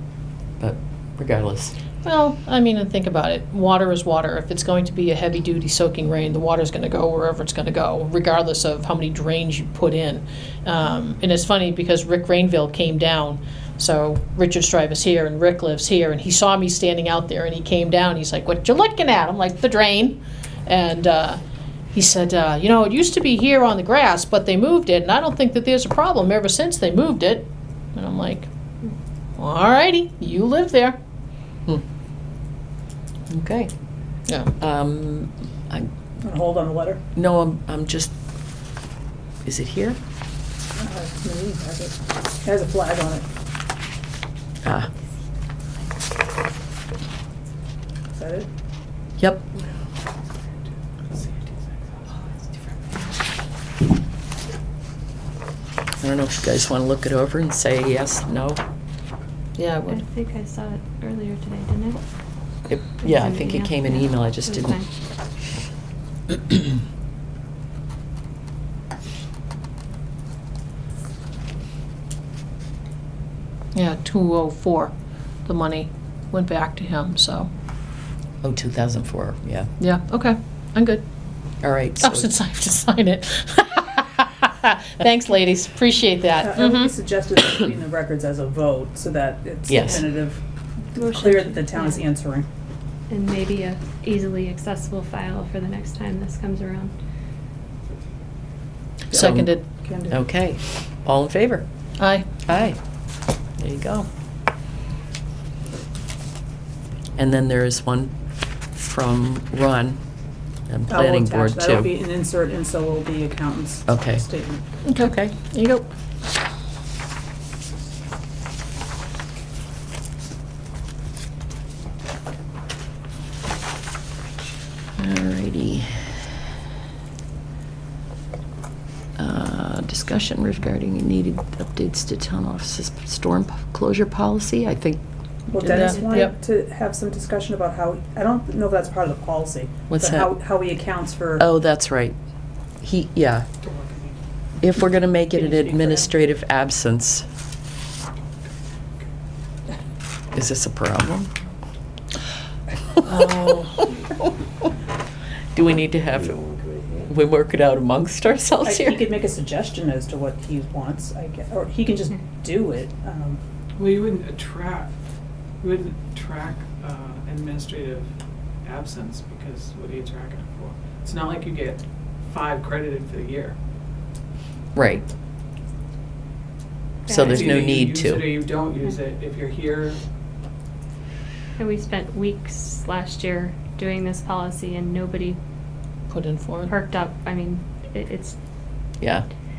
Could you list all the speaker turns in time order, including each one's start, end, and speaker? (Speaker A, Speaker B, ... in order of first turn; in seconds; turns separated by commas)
Speaker A: 0.6-1.8, Speaker B: 2.0-21.4, Speaker B: 21.9-28.5, Speaker B: 29.4-31.0, Speaker A: 33.3-33.7, Speaker B: 34.3-34.5, Speaker A: 34.6-35.9, Speaker C: 36.2-37.0, Speaker A: 37.1-38.1, Speaker A: 39.4-40.0, Speaker C: 40.8-43.2, Speaker A: 44.6-44.9, Speaker C: 48.1-48.5, Speaker A: 49.2-49.5, Speaker D: 51.1-52.0, Speaker A: 56.0-58.6, Speaker B: 59.6-60.0, Speaker E: 59.9-62.0, Speaker A: 62.7-64.8, Speaker E: 63.0-64.9, Speaker B: 73.7-74.9, Speaker B: 75.5-77.5, Speaker A: 78.4-79.7, Speaker B: 79.8-81.0, Speaker A: 81.6-82.3, Speaker B: 82.0-86.9, Speaker C: 86.4-90.4, Speaker A: 89.7-90.0, Speaker E: 90.9-92.0, Speaker C: 90.9-92.5, Speaker E: 93.1-96.9, Speaker B: 99.1-99.7, Speaker A: 99.1-99.5, Speaker C: 99.8-100.2, Speaker A: 100.1-101.7, Speaker B: 102.0-102.3, Speaker A: 102.5-102.8, Speaker A: 103.6-104.1, Speaker A: 107.2-108.2, Speaker A: 108.7-110.0, Speaker A: 110.7-111.9, Speaker C: 110.9-114.6, Speaker A: 113.9-114.2, Speaker B: 114.8-115.9, Speaker A: 115.0-115.3, Speaker A: 125.0-126.2, Speaker A: 129.2-135.0, Speaker C: 135.5-141.4, Speaker B: 135.6-136.3, Speaker A: 139.9-140.3, Speaker A: 141.4-142.2, Speaker A: 142.8-143.5, Speaker D: 143.6-144.2, Speaker A: 144.6-147.3, Speaker C: 145.4-146.0, Speaker A: 150.3-151.3, Speaker C: 153.0-153.9, Speaker A: 155.5-159.1, Speaker C: 158.6-163.4, Speaker D: 163.8-164.9, Speaker D: 165.6-168.1, Speaker D: 168.6-173.6, Speaker A: 174.7-175.0, Speaker E: 177.1-177.6, Speaker A: 177.1-178.3, Speaker D: 177.3-180.0, Speaker E: 181.6-185.4, Speaker B: 186.1-186.7, Speaker E: 186.7-188.3, Speaker A: 189.0-189.2